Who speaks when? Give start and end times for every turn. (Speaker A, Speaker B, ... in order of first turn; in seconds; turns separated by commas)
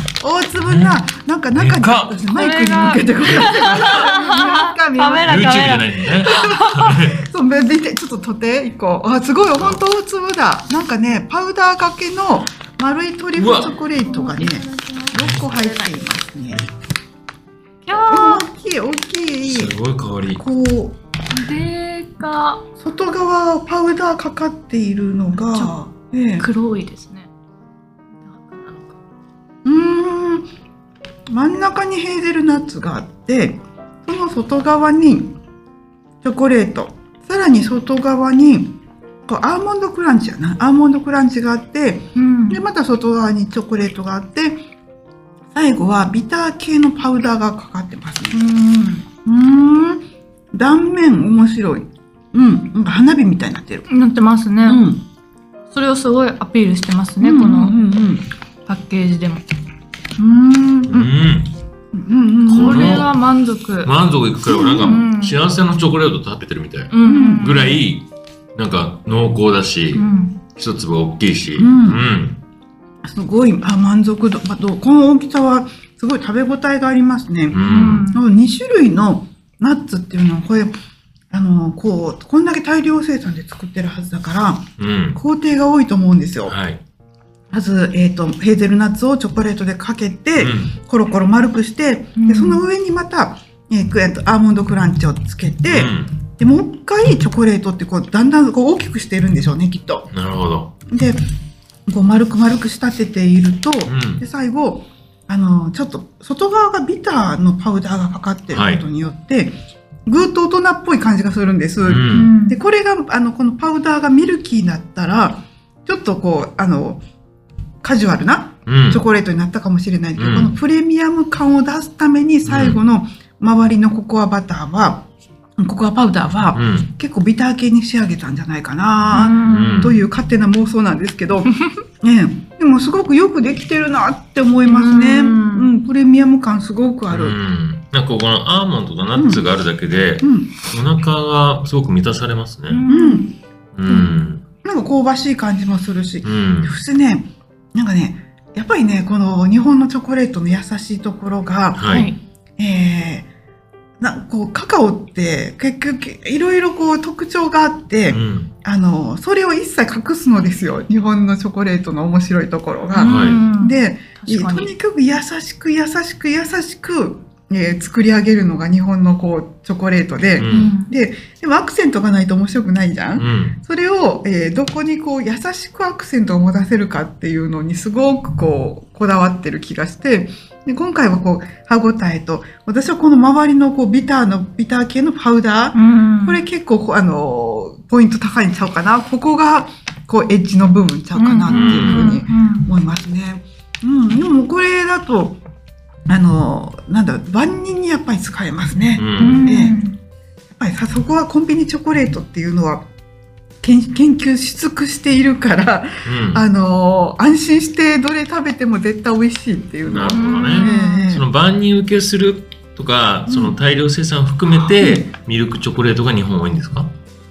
Speaker A: 0.2-5.6, Speaker B: 0.6-1.0, Speaker B: 1.5-2.2, Speaker C: 2.3-6.8, Speaker B: 5.2-7.2, Speaker A: 6.3-16.6, Speaker B: 9.5-9.8, Speaker B: 13.3-13.8, Speaker C: 13.9-16.0, Speaker B: 15.2-15.4, Speaker C: 17.8-18.5, Speaker A: 18.1-19.8, Speaker B: 19.4-20.4, Speaker A: 20.3-21.0, Speaker C: 21.3-22.6, Speaker A: 22.8-26.4, Speaker C: 26.4-27.3, Speaker C: 28.2-29.0, Speaker A: 29.6-30.5, Speaker A: 31.3-35.3, Speaker A: 36.2-44.6, Speaker C: 42.1-42.6, Speaker A: 45.5-53.9, Speaker C: 53.9-54.8, Speaker A: 54.6-55.0, Speaker C: 55.7-57.8, Speaker A: 57.2-58.2, Speaker C: 58.6-59.4, Speaker A: 60.2-61.1, Speaker B: 60.9-61.5, Speaker A: 61.9-63.0, Speaker B: 62.5-63.1, Speaker C: 62.6-63.9, Speaker B: 63.8-70.0, Speaker A: 64.4-65.0, Speaker C: 64.6-65.4, Speaker C: 66.9-67.8, Speaker A: 67.0-67.5, Speaker C: 69.9-70.4, Speaker B: 70.5-72.4, Speaker A: 71.6-72.0, Speaker A: 73.0-80.7, Speaker B: 77.5-78.1, Speaker C: 77.6-78.2, Speaker A: 81.3-86.5, Speaker B: 84.8-85.2, Speaker B: 86.5-86.8, Speaker A: 87.5-100.1, Speaker B: 90.4-90.7, Speaker C: 92.2-92.6, Speaker B: 95.7-96.2, Speaker B: 100.1-100.7, Speaker A: 100.9-101.2, Speaker A: 101.9-117.0, Speaker B: 103.8-104.2, Speaker B: 108.5-108.8, Speaker B: 111.8-112.3, Speaker C: 112.1-112.6, Speaker A: 117.8-125.0, Speaker B: 118.7-119.0, Speaker B: 120.2-120.5, Speaker B: 122.5-122.8, Speaker A: 125.6-137.4, Speaker B: 126.5-126.9, Speaker B: 129.0-130.0, Speaker C: 129.1-129.9, Speaker C: 134.6-135.7, Speaker B: 137.1-142.8, Speaker A: 139.1-139.4, Speaker A: 140.2-140.5, Speaker C: 142.7-143.3, Speaker A: 142.9-143.3, Speaker B: 143.7-144.4, Speaker A: 143.9-152.0, Speaker B: 146.2-146.8, Speaker B: 151.8-152.1, Speaker C: 151.9-152.2, Speaker A: 152.6-153.3, Speaker A: 154.0-195.4, Speaker B: 158.1-158.5, Speaker C: 162.9-164.7, Speaker B: 163.0-163.4, Speaker B: 170.4-170.7, Speaker C: 170.4-170.9, Speaker B: 173.2-173.6, Speaker C: 185.7-186.4, Speaker C: 191.1-192.7, Speaker B: 191.5-192.1, Speaker A: 196.1-199.8, Speaker B: 199.0-199.5, Speaker C: 199.2-200.0, Speaker A: 200.5-202.8, Speaker A: 203.6-211.2, Speaker B: 206.0-206.4, Speaker B: 209.8-216.9, Speaker C: 210.0-211.0, Speaker A: 213.3-213.6, Speaker A: 214.8-215.0